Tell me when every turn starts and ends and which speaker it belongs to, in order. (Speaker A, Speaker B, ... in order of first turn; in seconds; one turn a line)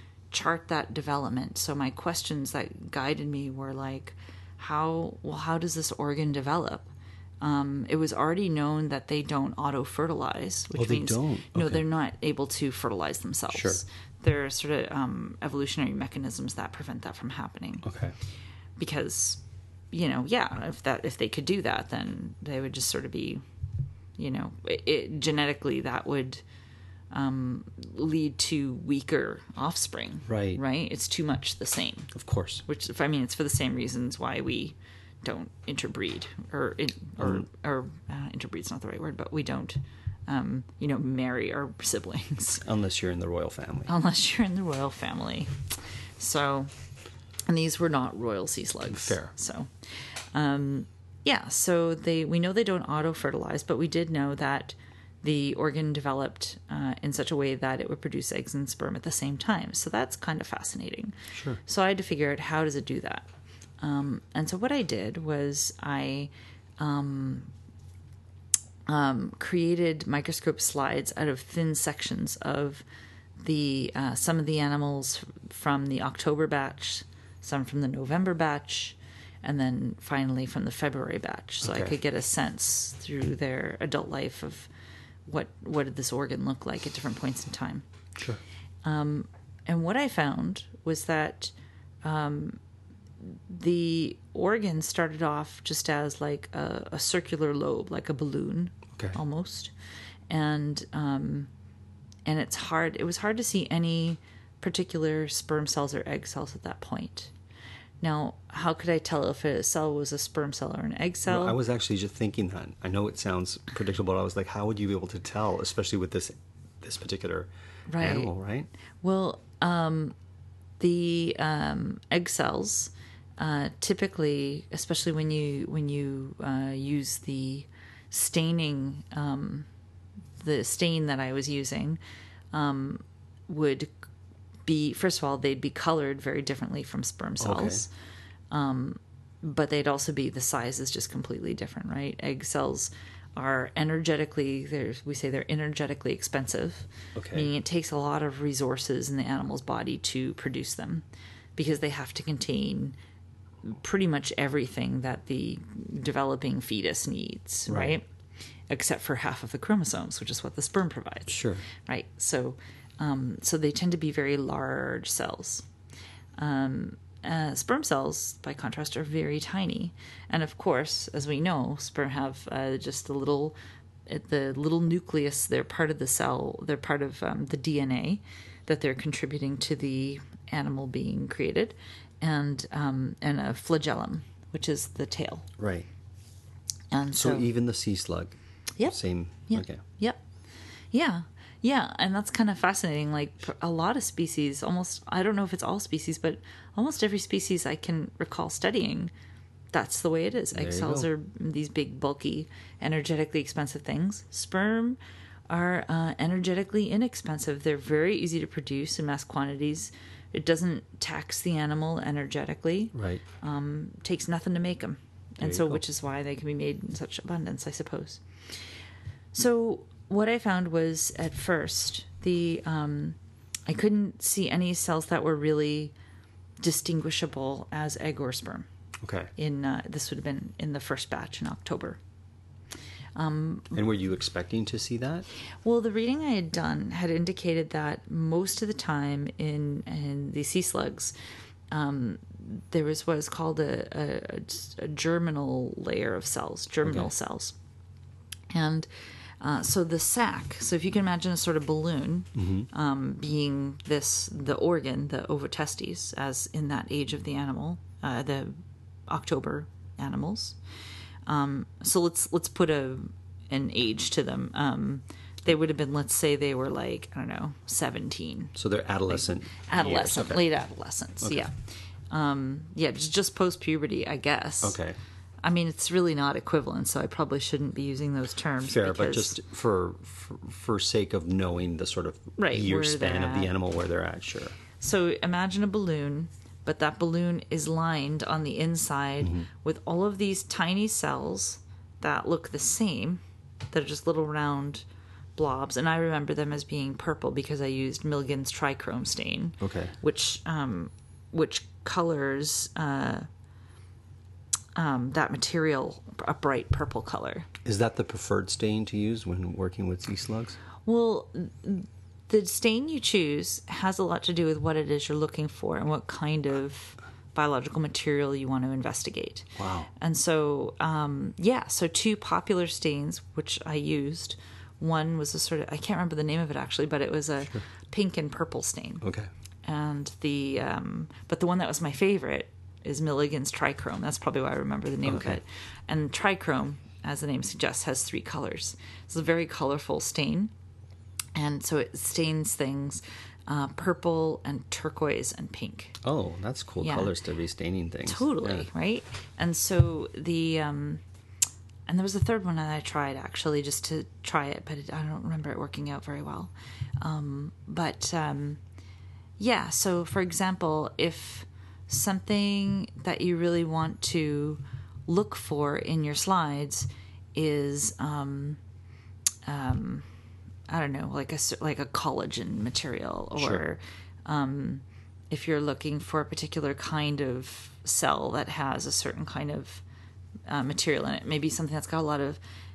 Speaker A: 0.3-6.9
Speaker A: 7.4-17.8
Speaker B: 10.7-11.8
Speaker B: 13.5-13.8
Speaker B: 17.8-18.1
Speaker A: 18.8-19.4
Speaker A: 19.9-23.4
Speaker A: 24.2-26.4
Speaker A: 27.1-32.1
Speaker B: 30.3-30.6
Speaker B: 32.1-32.6
Speaker A: 32.6-42.6
Speaker B: 37.2-37.5
Speaker B: 42.6-43.9
Speaker A: 43.9-45.5
Speaker A: 46.2-46.7
Speaker A: 47.5-61.1
Speaker B: 48.9-49.3
Speaker B: 61.3-61.6
Speaker A: 61.6-63.3
Speaker A: 63.8-67.5
Speaker A: 68.9-72.8
Speaker A: 73.4-84.7
Speaker B: 81.6-82.0
Speaker A: 85.2-87.8
Speaker B: 88.2-88.4
Speaker A: 88.8-92.6
Speaker A: 93.2-99.7
Speaker B: 98.9-99.2
Speaker A: 100.3-101.5
Speaker A: 102.2-107.3
Speaker A: 108.0-111.6
Speaker B: 111.3-118.7
Speaker A: 117.9-118.3
Speaker A: 119.0-120.1
Speaker A: 120.8-129.7
Speaker A: 130.4-132.0
Speaker A: 132.5-133.9
Speaker A: 134.7-137.9
Speaker B: 137.4-137.8
Speaker A: 138.5-151.0
Speaker B: 147.1-147.5
Speaker A: 151.6-152.9
Speaker A: 153.6-158.0
Speaker B: 157.7-158.0
Speaker A: 158.7-165.7
Speaker B: 161.3-161.6
Speaker A: 166.4-185.5
Speaker B: 185.6-185.9
Speaker A: 186.9-187.5
Speaker B: 187.1-189.8
Speaker A: 189.5-190.2
Speaker A: 190.9-199.1
Speaker A: 199.7-205.0
Speaker B: 200.5-201.1
Speaker A: 205.5-218.6
Speaker B: 212.9-213.2
Speaker B: 215.4-215.8
Speaker A: 219.3-225.9
Speaker A: 226.6-228.7
Speaker B: 229.0-229.3
Speaker A: 229.4-232.0
Speaker A: 233.2-233.8
Speaker B: 233.7-235.3
Speaker A: 235.6-241.1
Speaker A: 241.7-247.5
Speaker B: 246.8-247.1
Speaker A: 248.5-260.6
Speaker B: 252.3-252.7
Speaker A: 261.3-268.5
Speaker B: 268.5-270.4
Speaker A: 269.1-271.5
Speaker B: 271.2-271.5
Speaker A: 272.1-274.8
Speaker B: 274.6-275.0
Speaker A: 275.4-279.4
Speaker B: 278.6-284.6
Speaker A: 282.4-283.5
Speaker A: 284.8-294.8
Speaker B: 289.2-289.5
Speaker A: 295.4-303.3
Speaker B: 299.6-299.9
Speaker A: 304.7-307.5
Speaker B: 307.6-310.6
Speaker A: 310.8-329.0
Speaker B: 319.6-319.9
Speaker B: 329.0-329.3
Speaker A: 329.6-340.5
Speaker B: 335.0-335.4
Speaker A: 341.3-346.0
Speaker B: 346.0-348.7
Speaker A: 346.8-347.1
Speaker A: 348.1-351.0
Speaker A: 351.9-358.6
Speaker A: 359.4-368.6
Speaker A: 369.4-370.1
Speaker A: 370.7-379.8
Speaker B: 373.3-373.6
Speaker A: 380.4-382.4